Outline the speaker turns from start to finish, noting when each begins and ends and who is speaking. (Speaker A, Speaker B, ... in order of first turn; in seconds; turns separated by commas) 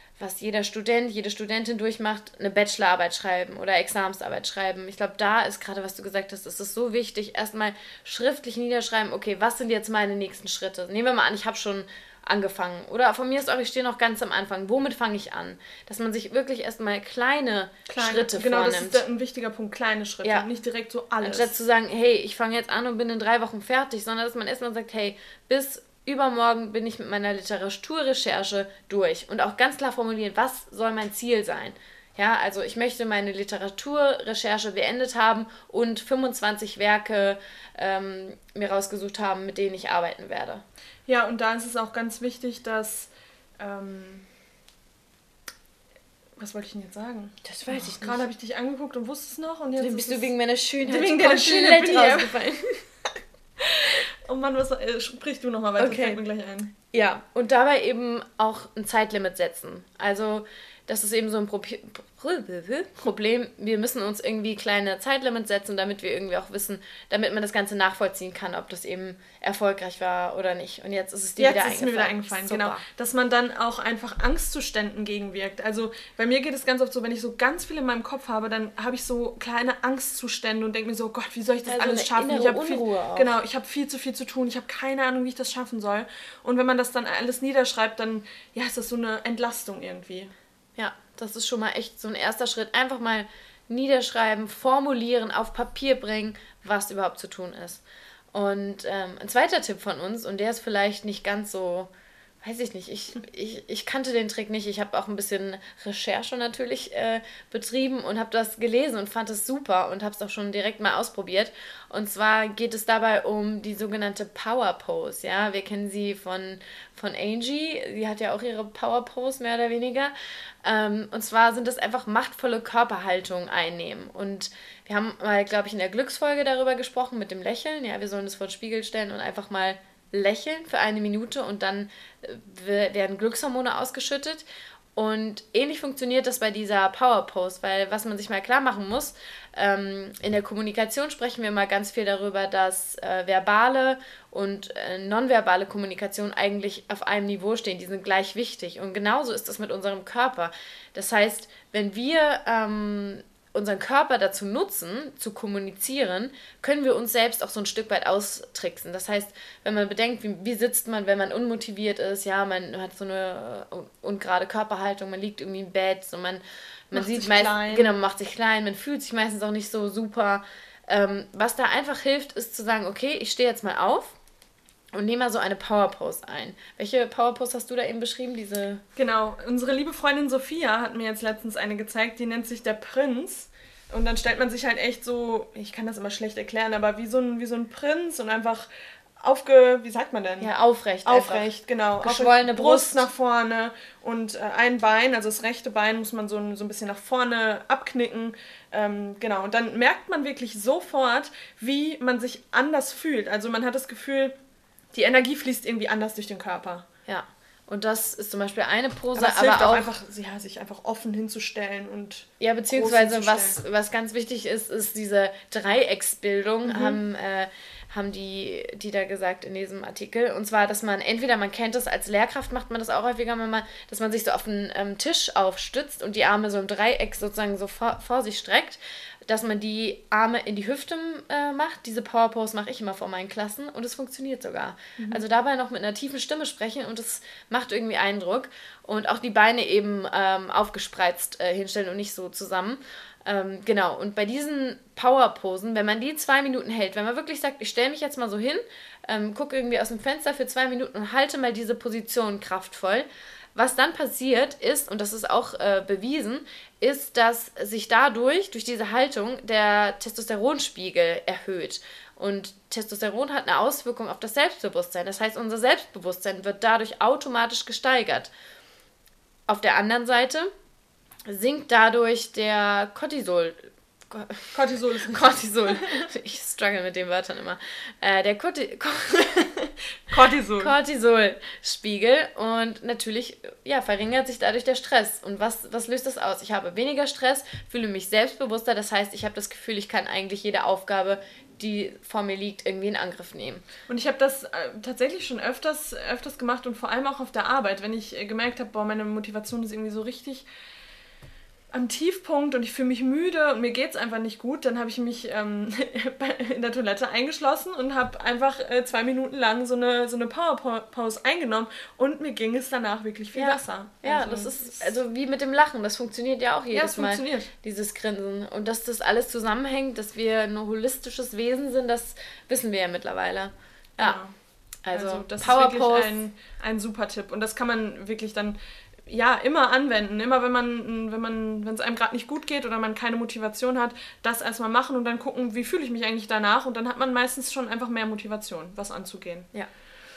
Speaker A: 0.2-19.0, Speaker B: 17.9-21.5, Speaker A: 21.2-40.6, Speaker B: 41.1-44.3, Speaker B: 46.4-50.3, Speaker A: 47.5-48.2, Speaker A: 49.8-52.7, Speaker B: 50.8-52.6, Speaker B: 53.6-56.7, Speaker A: 55.8-56.2, Speaker A: 56.9-72.8, Speaker B: 71.4-90.3, Speaker A: 81.7-83.3, Speaker A: 90.8-101.9, Speaker A: 102.4-120.1, Speaker A: 120.6-134.4, Speaker A: 135.0-174.2, Speaker B: 166.9-168.0, Speaker A: 174.9-178.8, Speaker B: 179.0-190.5, Speaker A: 190.4-191.5, Speaker B: 191.0-204.4, Speaker A: 192.0-193.1, Speaker B: 204.9-206.9, Speaker A: 207.1-209.9, Speaker B: 209.2-213.6, Speaker A: 212.4-268.3, Speaker B: 216.7-217.0, Speaker A: 269.5-270.5, Speaker A: 271.3-279.5, Speaker B: 274.5-276.1, Speaker B: 280.1-280.7, Speaker A: 280.6-293.6, Speaker B: 293.9-300.4, Speaker B: 301.7-314.9, Speaker A: 313.3-324.2, Speaker B: 316.7-317.5, Speaker B: 324.0-324.3, Speaker A: 324.9-326.2, Speaker B: 324.9-339.5